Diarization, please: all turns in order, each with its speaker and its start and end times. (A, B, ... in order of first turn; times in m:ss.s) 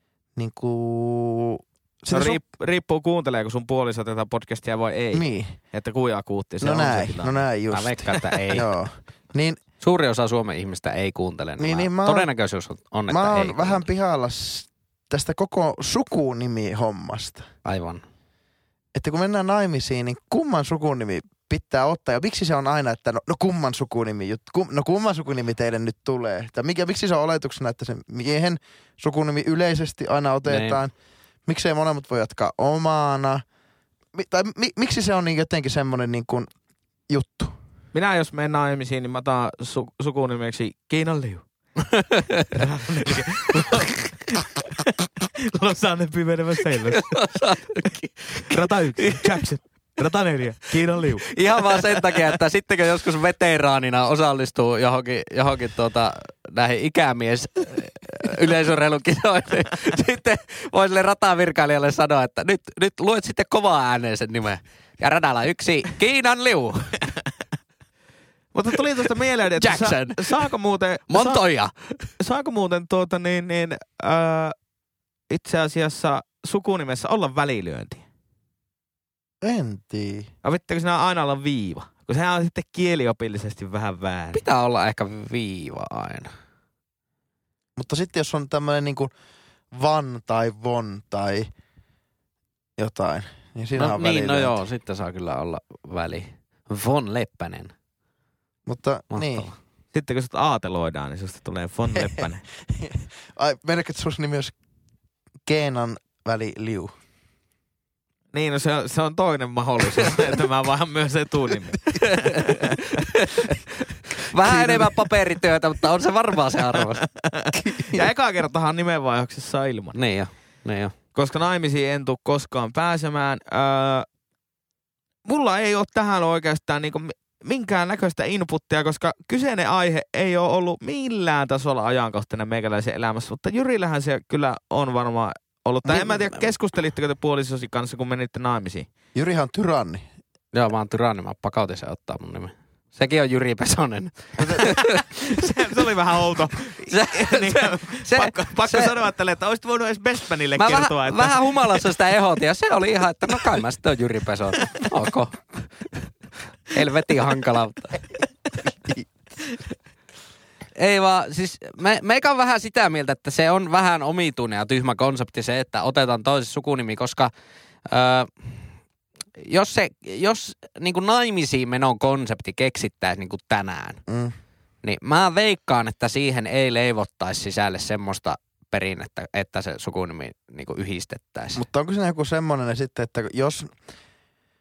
0:00.4-0:02.4 A
0:02.1-0:07.4 B
0:05.1-0:05.6 A
0:06.6-0:07.9 A
0:07.7-0:08.6 C
0:08.5-0:09.6 A
0:09.8-0:13.9 C
0:11.6-0:12.3 A
0:13.1-0:17.4 A
0:17.6-0:18.0 C
0:18.9-0:30.9 A
0:30.4-0:30.8 C
0:31.4-0:33.4 A
0:34.1-0:36.5 A
0:37.1-0:37.5 A
0:37.9-0:41.4 B
0:41.9-0:42.6 C
0:42.5-0:47.2 B
0:43.1-0:43.9 C
0:46.9-0:49.4 C
0:48.5-0:51.4 B
0:51.2-1:07.0 C
1:08.5-1:11.4 B
1:09.6-1:10.5 C
1:11.1-1:12.1 C
1:12.2-1:14.6 B
1:15.3-1:18.0 B
1:19.4-1:20.3 A
1:20.4-1:24.4 B
1:24.3-1:26.3 C
1:27.8-1:29.1 A
1:29.7-1:31.5 A
1:32.8-1:34.6 A
1:33.8-1:37.7 C
1:38.6-1:39.5 A
1:39.1-1:39.6 C
1:39.9-1:42.4 B
1:41.9-1:44.6 A
1:45.4-1:46.9 A
1:48.3-1:52.8 B
1:51.9-1:53.6 C
1:54.2-1:57.0 C
1:54.5-1:54.8 A
1:57.0-2:00.0 B
1:57.6-1:58.1 A
1:59.9-2:00.9 C
2:01.1-2:04.1 B
2:05.2-2:18.9 B
2:19.1-2:20.1 A
2:20.5-2:25.5 C
2:24.4-2:24.7 A
2:24.5-2:31.8 B
2:26.9-2:28.9 C
2:30.6-2:36.1 C
2:36.7-2:38.0 C
2:40.8-2:47.3 C
2:47.9-2:48.6 C
2:49.4-2:54.0 C
2:54.1-2:54.3 A
2:54.8-3:01.6 C
3:01.5-3:03.7 A